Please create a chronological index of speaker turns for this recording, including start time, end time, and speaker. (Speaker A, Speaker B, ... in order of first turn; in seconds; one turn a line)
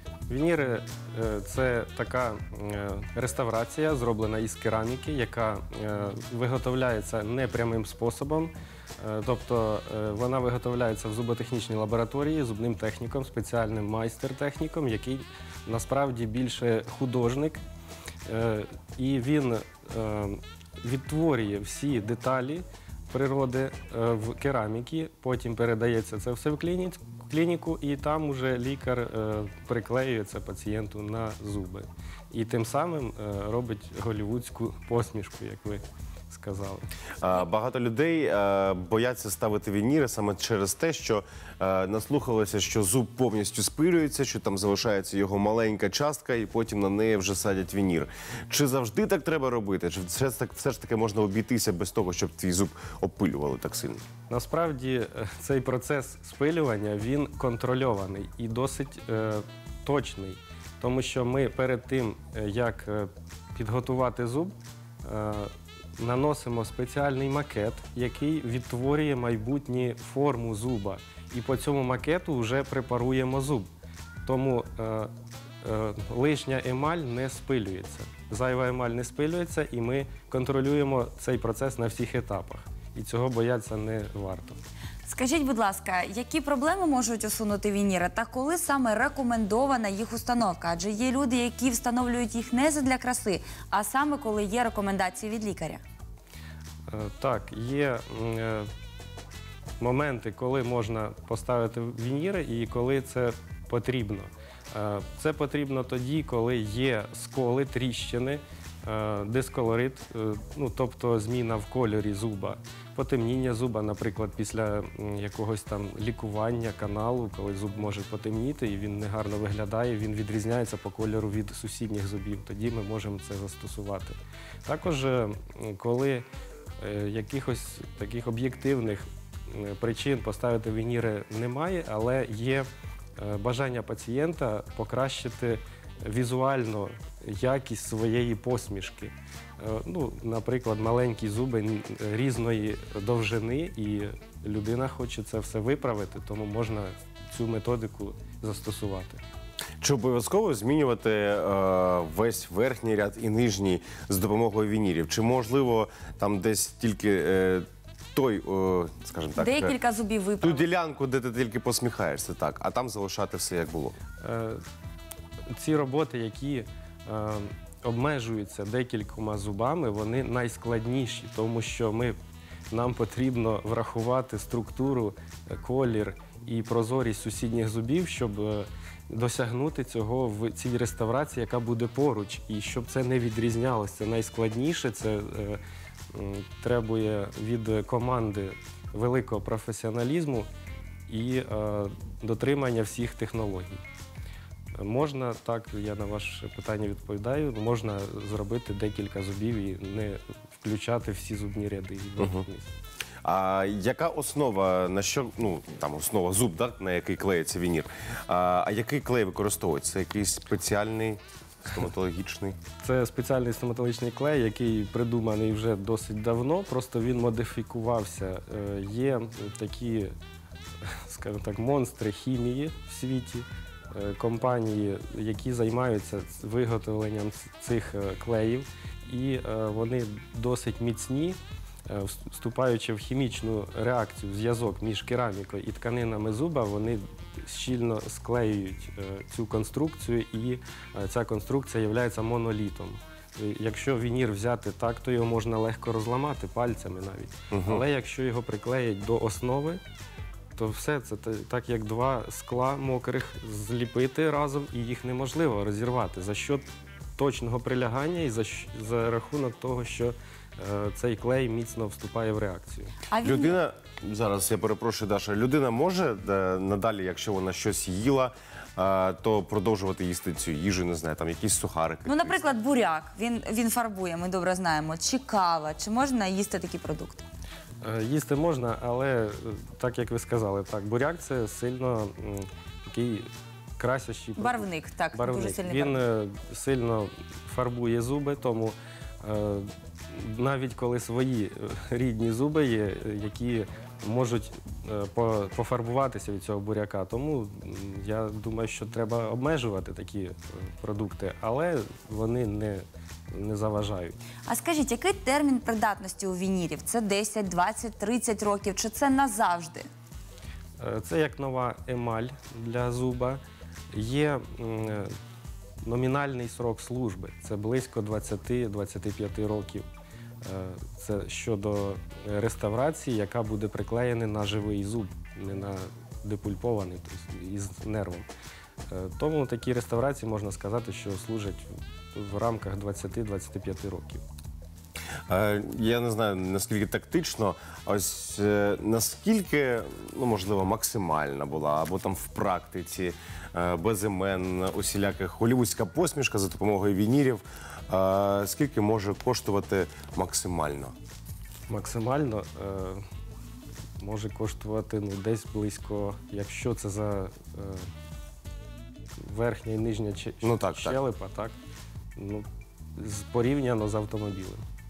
Speaker A: 0.3-17.6
Speaker A: 18.2-36.9
Speaker B: 37.2-54.0
Speaker A: 54.3-73.7
Speaker A: 74.2-75.1
Speaker A: 75.6-84.6
Speaker C: 85.0-95.8
Speaker A: 96.9-98.7
Speaker A: 99.8-126.2
Speaker A: 126.8-149.2
Speaker B: 149.8-159.8
Speaker C: 159.4-160.6
Speaker B: 160.4-163.9
Speaker A: 164.2-164.6
Speaker A: 165.5-172.2
Speaker A: 172.7-185.6
Speaker A: 186.1-190.5
Speaker A: 191.1-193.8
Speaker A: 194.8-202.7
Speaker B: 202.2-202.4
Speaker B: 203.2-212.6
Speaker A: 212.8-220.1
Speaker A: 220.8-249.8
Speaker B: 247.5-247.8
Speaker A: 250.5-256.6
Speaker A: 257.1-262.9
Speaker C: 263.1-263.6
Speaker B: 263.2-272.5
Speaker C: 272.1-277.2
Speaker A: 277.8-304.2
Speaker C: 284.4-286.0
Speaker C: 304.5-309.9
Speaker A: 310.8-313.4
Speaker A: 313.9-315.1
Speaker A: 315.8-319.9
Speaker A: 320.4-328.2
Speaker A: 328.9-334.2
Speaker B: 335.3-350.9
Speaker A: 351.7-353.0
Speaker A: 354.0-357.9
Speaker A: 359.2-361.5
Speaker B: 360.4-361.0
Speaker A: 362.1-364.6